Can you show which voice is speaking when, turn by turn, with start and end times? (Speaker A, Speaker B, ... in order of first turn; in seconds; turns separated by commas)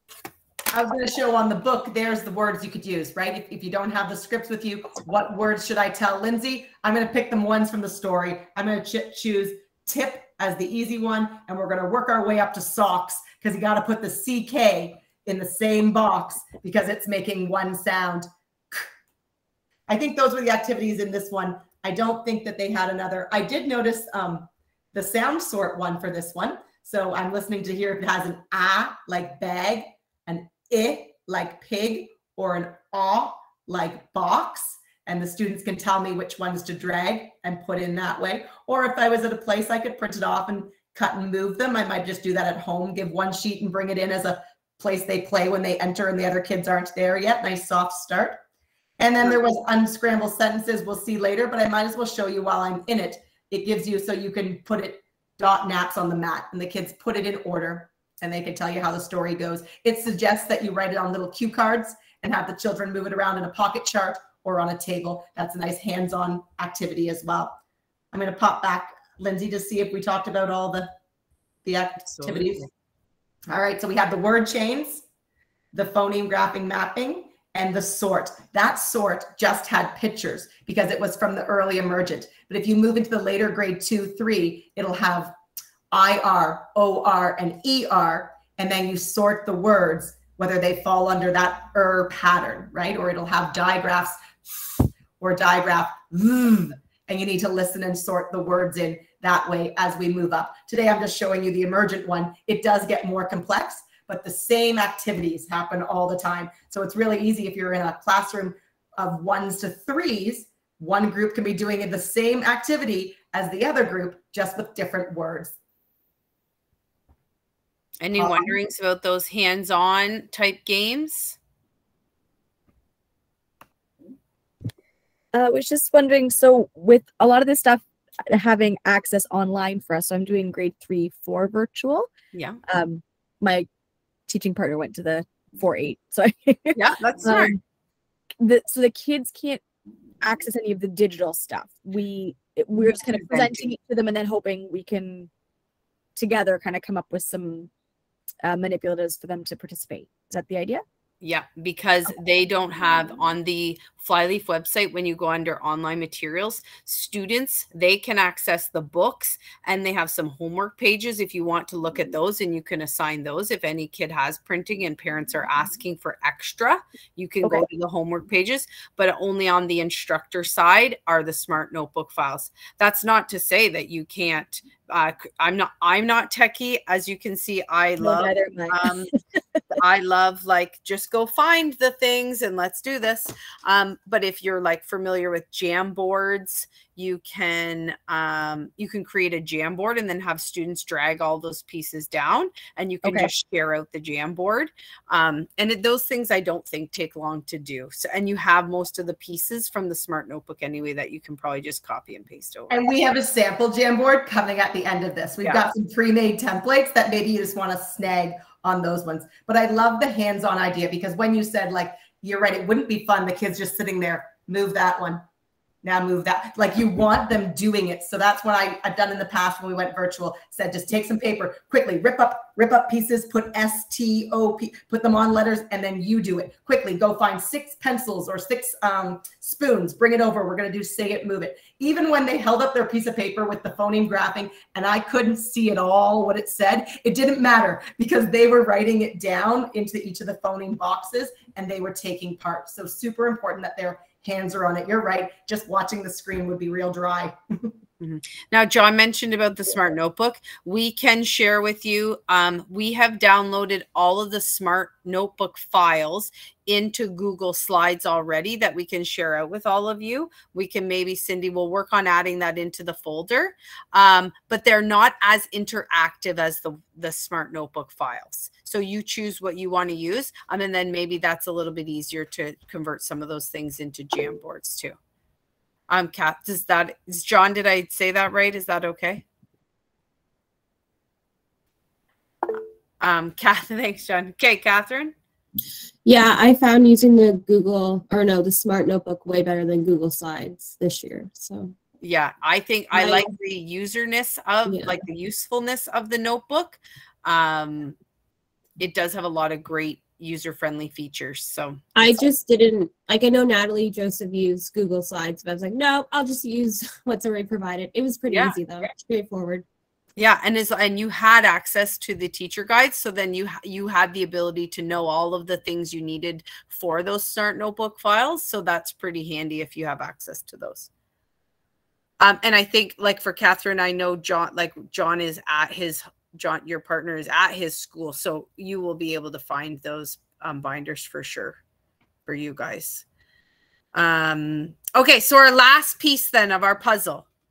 Speaker A: 0.7-18.9, Speaker A: 19.9-48.4, Speaker A: 49.0-67.6, Speaker A: 68.1-70.9, Speaker A: 71.6-72.7, Speaker B: 72.0-72.7, Speaker A: 73.5-75.0, Speaker A: 75.7-85.3, Speaker A: 85.9-115.5, Speaker B: 118.0-121.4, Speaker A: 118.2-118.5, Speaker C: 125.3-132.1, Speaker B: 132.3-132.6, Speaker C: 132.7-133.7, Speaker C: 134.3-137.6, Speaker B: 136.7-137.6, Speaker C: 138.4-139.6, Speaker C: 140.2-145.3, Speaker B: 143.1-143.7, Speaker C: 146.2-147.7, Speaker C: 148.4-150.8, Speaker B: 151.2-179.1, Speaker C: 178.0-179.0, Speaker B: 179.8-202.8, Speaker A: 202.7-215.2, Speaker B: 205.4-205.7, Speaker A: 215.8-247.7, Speaker B: 248.0-275.0, Speaker B: 275.9-279.2, Speaker B: 283.0-285.1, Speaker D: 286.0-291.8, Speaker B: 292.0-297.9, Speaker D: 292.9-293.3, Speaker D: 294.6-295.0, Speaker B: 298.8-302.2, Speaker D: 301.9-309.6, Speaker B: 308.3-308.6, Speaker B: 310.2-320.9, Speaker B: 322.2-331.6, Speaker B: 332.3-333.0, Speaker B: 333.9-337.2